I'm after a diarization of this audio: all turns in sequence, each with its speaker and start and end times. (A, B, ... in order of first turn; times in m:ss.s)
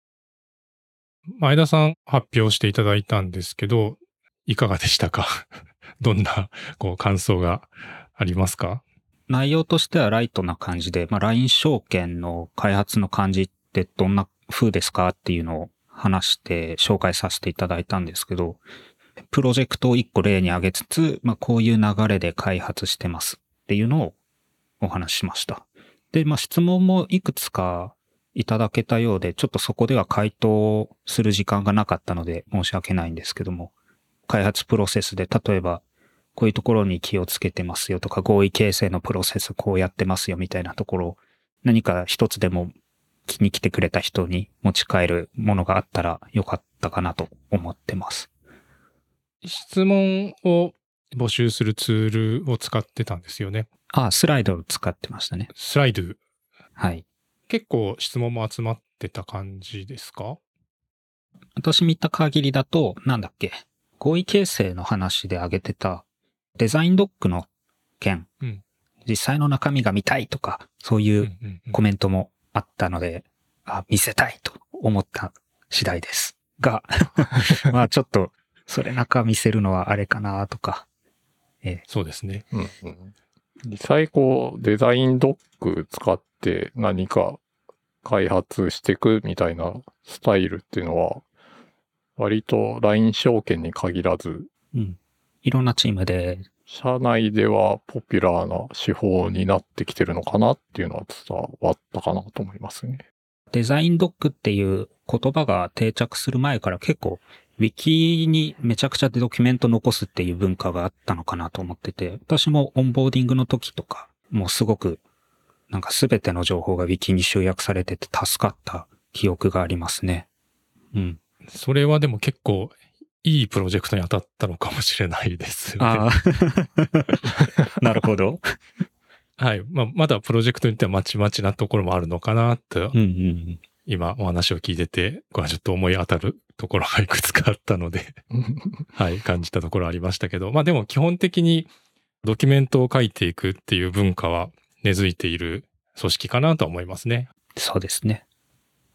0:01.3-0:05.5 A
0:06.0-0:08.8 A
0:09.3-0:18.6 B
0:19.3-0:24.2 B
0:24.8-0:33.7 B
0:34.3-0:35.8 B
0:36.4-0:42.8 B
0:43.3-0:48.3 B
0:49.4-0:53.7 A
0:53.9-0:55.5 B
0:55.5-0:56.2 A
0:56.8-0:57.0 B
0:57.5-1:00.4 A
1:01.6-1:06.0 B
1:06.6-1:07.5 B
1:08.0-1:08.3 B
1:09.1-1:20.9 B
1:11.2-1:11.8 A
1:21.9-1:22.5 A
1:22.5-1:23.1 C
1:23.6-1:27.4 C
1:28.0-1:31.2 C
1:32.2-1:34.5 C
1:34.7-1:36.5 B
1:36.7-1:43.0 C
1:43.5-1:55.0 B
1:55.7-2:00.3 B
2:00.9-2:01.2 B
2:01.5-2:06.1 A
2:05.8-2:08.4 B
2:09.4-2:13.0 A
2:12.9-2:13.6 B
2:13.9-2:18.2 A
2:18.3-2:18.9 C
2:18.9-2:21.7 A
2:22.2-2:27.3 A
2:27.6-2:28.2 B